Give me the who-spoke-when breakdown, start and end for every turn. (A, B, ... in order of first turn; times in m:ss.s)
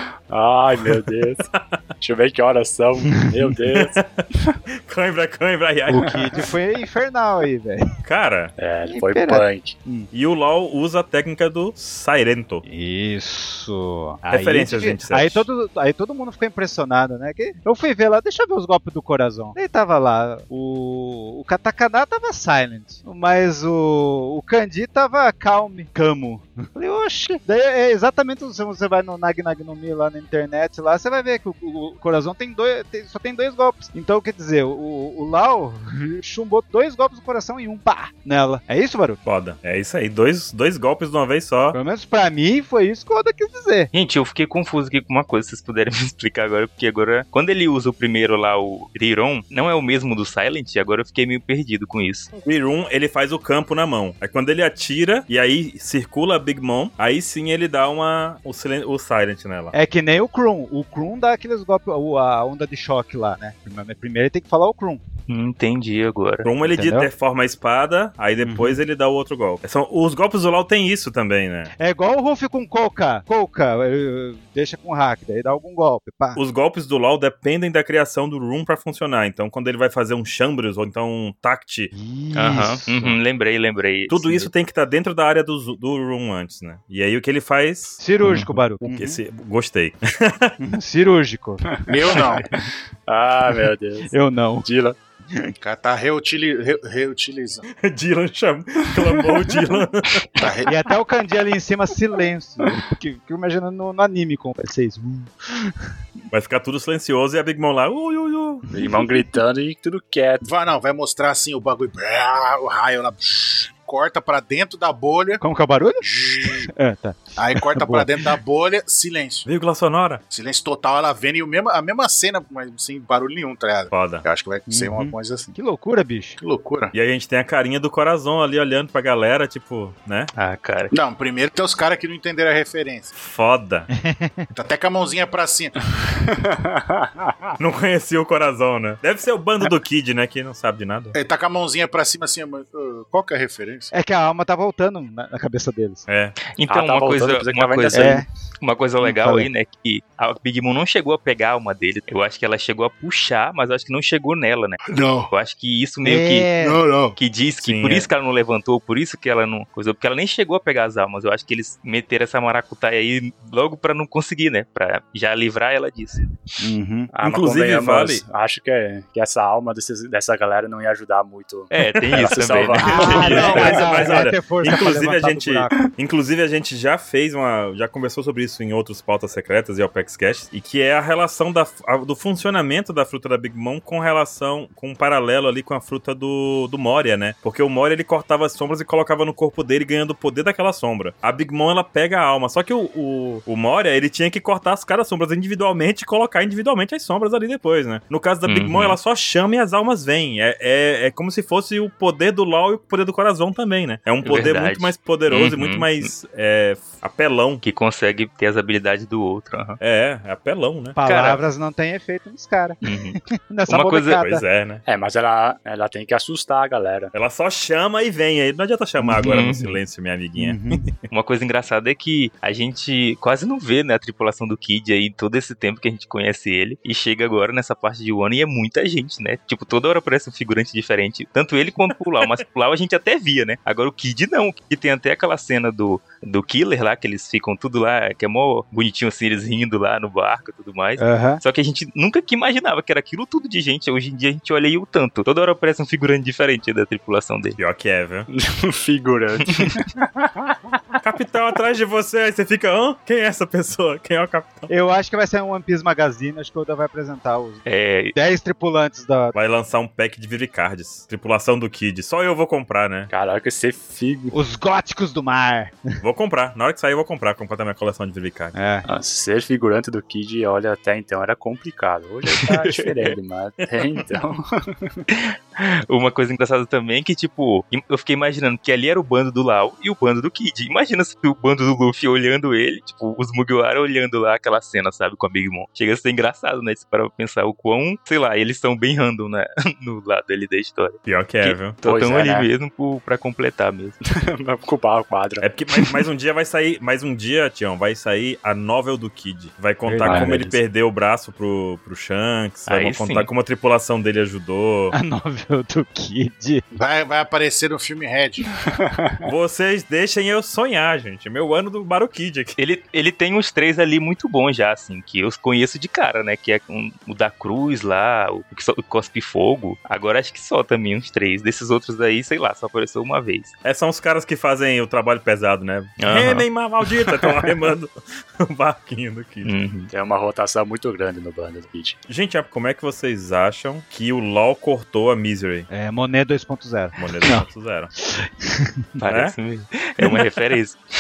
0:00.3-0:01.4 A
0:00.9-0:01.8 B
0:02.0-0:04.6 A
0:03.7-0:04.2 B
0:04.8-0:06.2 B
0:05.9-0:07.8 C
0:08.0-0:08.5 B
0:08.6-0:09.8 A
0:08.9-0:10.1 C
0:10.1-0:12.6 B
0:12.6-0:39.2 C
0:14.3-0:15.5 B
0:39.2-0:41.8 B
0:41.7-0:43.9 C
0:43.9-0:52.3 D
0:52.3-0:59.7 B
0:59.7-1:05.0 C
1:05.3-1:06.5 D
1:06.4-1:11.7 B
1:06.7-1:07.1 C
1:08.4-1:08.8 C
1:11.8-1:16.4 C
1:16.4-1:21.9 B
1:21.9-1:23.2 C
1:22.3-1:24.5 D
1:24.1-1:28.0 B
1:28.0-1:29.2 C
1:28.8-1:30.5 B
1:30.6-1:31.6 C
1:31.7-1:34.1 A
1:31.9-1:32.4 E
1:34.1-1:34.7 C
1:34.6-1:35.0 A
1:35.6-1:37.6 E
1:37.8-1:40.3 B
1:40.4-1:40.7 E
1:40.6-1:45.7 C
1:46.3-1:48.7 B
1:48.7-1:50.5 A
1:48.8-1:49.0 C
1:50.4-1:55.4 E
1:55.4-1:58.2 C
1:56.0-1:56.7 E
1:57.4-1:59.5 E
1:59.4-2:00.2 B
2:00.3-2:05.5 E
2:03.9-2:04.2 B
2:04.7-2:06.4 C
2:06.4-2:06.9 E
2:06.9-2:10.3 B
2:10.4-2:10.9 D
2:10.9-2:13.1 E
2:13.1-2:13.9 B
2:14.0-2:14.5 C
2:14.5-2:15.7 E
2:16.0-2:17.6 A
2:17.6-2:21.2 B
2:21.1-2:23.9 E
2:23.9-2:26.0 C
2:26.1-2:26.4 B
2:26.5-2:36.5 D
2:26.7-2:28.2 A
2:27.9-2:28.2 C
2:29.0-2:29.5 C
2:34.9-2:35.3 E
2:36.0-2:36.8 C
2:36.6-2:37.2 E
2:37.1-2:46.3 D
2:37.6-2:38.1 B
2:46.6-2:47.1 C
2:47.1-2:54.1 A
2:47.2-2:48.2 B
2:51.7-2:54.0 D
2:52.8-2:55.8 C
2:53.0-3:27.6 B
3:18.4-3:19.0 D
3:24.2-3:26.1 D
3:27.6-3:29.8 D
3:29.8-3:31.0 B
3:31.0-3:32.8 C
3:31.0-3:31.4 D
3:32.8-3:33.2 D
3:33.5-3:34.4 C
3:33.7-3:34.2 D
3:34.2-3:34.8 B
3:34.8-3:37.1 A
3:37.1-3:40.9 B
3:39.2-3:39.8 D
3:40.4-3:40.9 C
3:41.1-4:07.6 D
4:01.0-4:01.4 C
4:07.6-4:08.3 B
4:08.3-4:10.8 A
4:11.0-4:14.7 B
4:14.7-4:17.6 C
4:17.6-4:18.1 D
4:18.1-4:19.3 C
4:19.3-4:23.1 B
4:23.1-4:24.3 A
4:24.3-4:25.9 C
4:26.0-4:28.5 B
4:28.5-4:28.8 C
4:28.8-4:35.0 A
4:35.1-4:54.0 D
4:51.0-4:51.8 B
4:51.8-4:52.5 A
4:54.0-4:55.5 A
4:55.4-5:04.9 B
4:59.8-5:00.6 C
5:00.0-5:00.4 A
5:02.7-5:03.3 D
5:04.9-5:06.6 C
5:06.7-5:08.4 E
5:08.8-5:09.2 A
5:09.2-5:12.6 B
5:12.6-5:23.5 D
5:23.6-5:29.5 B
5:26.0-5:26.4 D
5:29.4-5:29.9 D
5:29.9-5:32.0 A
5:32.1-5:35.7 B
5:35.7-5:37.4 C
5:37.0-5:37.9 B
5:38.1-5:38.7 C
5:39.0-5:40.8 D
5:39.1-5:39.3 B